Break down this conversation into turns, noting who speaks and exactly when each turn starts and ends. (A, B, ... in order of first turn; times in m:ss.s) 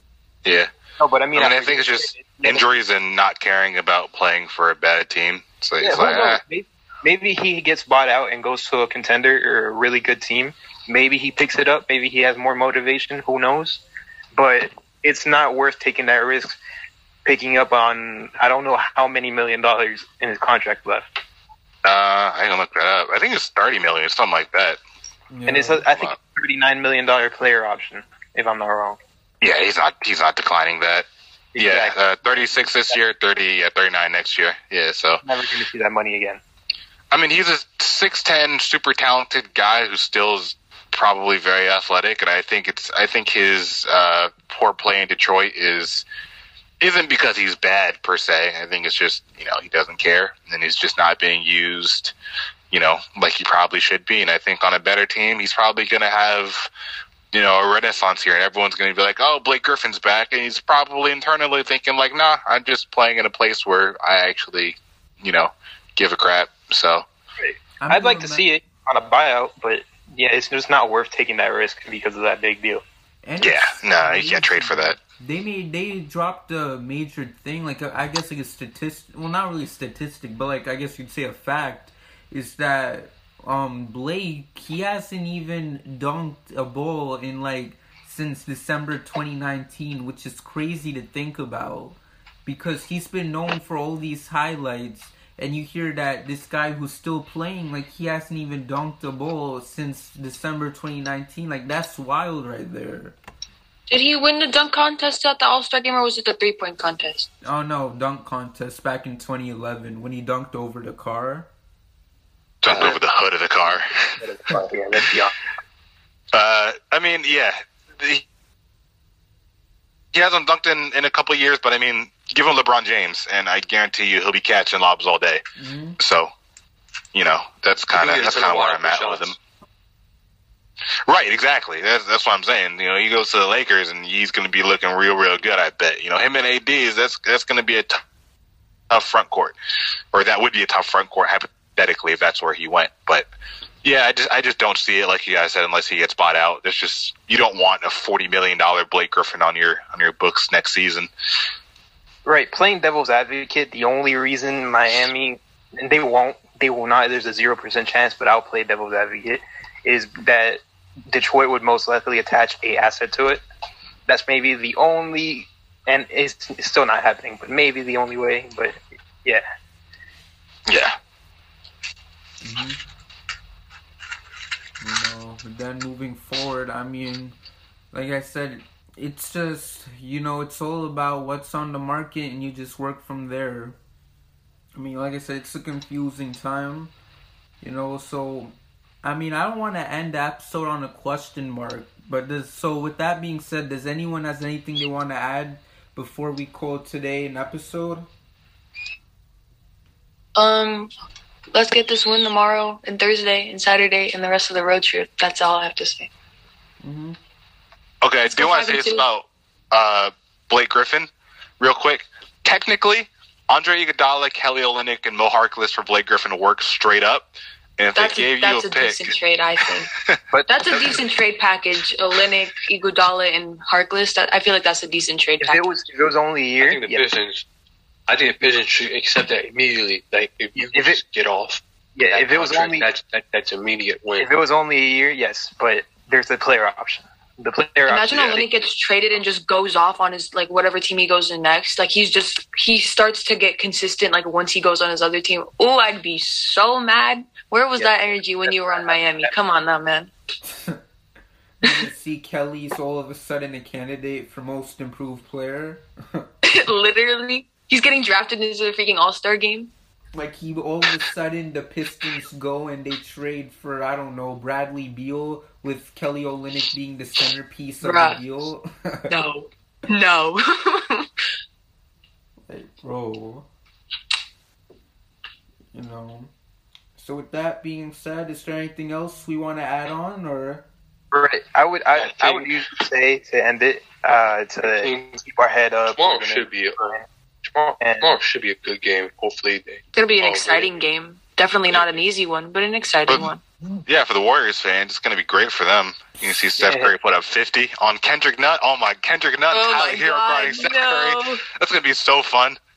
0:00.4-0:00.7 A
0:01.0-0:02.8 B
0:01.3-0:06.4 A
0:05.8-0:13.8 B
0:14.3-0:16.6 B
0:17.2-0:21.1 B
0:21.8-0:24.8 A
0:25.3-0:25.9 C
0:25.5-0:29.0 B
0:29.4-0:35.2 A
0:31.5-0:32.5 B
0:35.2-0:36.4 B
0:37.1-0:46.0 A
0:46.8-0:52.1 A
0:52.7-0:56.7 A
0:57.3-1:07.0 A
1:07.4-1:12.8 B
1:07.8-1:08.4 C
1:13.2-1:43.2 C
1:13.4-1:15.0 A
1:43.9-1:47.3 D
1:47.4-1:51.5 C
1:52.6-1:54.2 A
1:52.7-1:53.0 B
1:54.2-1:55.3 B
1:56.3-1:58.2 A
2:00.1-2:05.4 A
2:05.6-2:06.0 C
2:06.0-2:06.3 A
2:07.1-2:09.4 A
2:07.9-2:09.4 E
2:11.1-2:18.0 A
2:18.9-2:19.5 A
2:20.1-2:23.3 A
2:23.8-2:31.1 A
2:32.2-2:43.4 B
2:44.1-2:49.4 B
2:50.7-2:51.0 A
2:52.4-2:52.8 C
2:54.8-2:57.4 C
2:57.9-3:03.8 C
3:04.8-3:06.9 C
3:07.6-3:18.1 C
3:20.4-3:20.9 D
3:21.5-3:26.1 D
3:26.8-3:27.2 C
3:28.0-3:31.1 A
3:28.3-3:29.1 D
3:31.6-3:39.1 A
3:38.0-3:39.9 D
3:40.3-3:41.0 B
3:40.5-3:45.6 D
3:45.4-3:47.1 B
3:46.6-3:47.4 E
3:48.1-3:54.3 E
3:50.7-3:51.0 B
3:52.0-3:52.9 B
3:54.2-3:58.4 B
3:57.9-4:10.1 D
4:07.8-4:09.3 B
4:10.4-4:10.8 C
4:11.6-4:16.3 C
4:16.4-4:19.7 D
4:20.1-4:29.1 C
4:27.8-4:28.2 D
4:29.1-4:31.1 D
4:32.5-4:33.4 C
4:35.7-4:36.3 C
4:37.0-4:40.6 C
4:41.1-4:47.0 B
4:42.0-4:42.6 E
4:44.8-4:45.2 E
4:45.9-4:50.7 E
4:47.8-4:48.2 B
4:49.9-4:53.4 D
4:53.1-4:53.3 A
4:53.8-5:02.6 A
4:56.6-4:56.9 B
4:59.5-5:01.4 D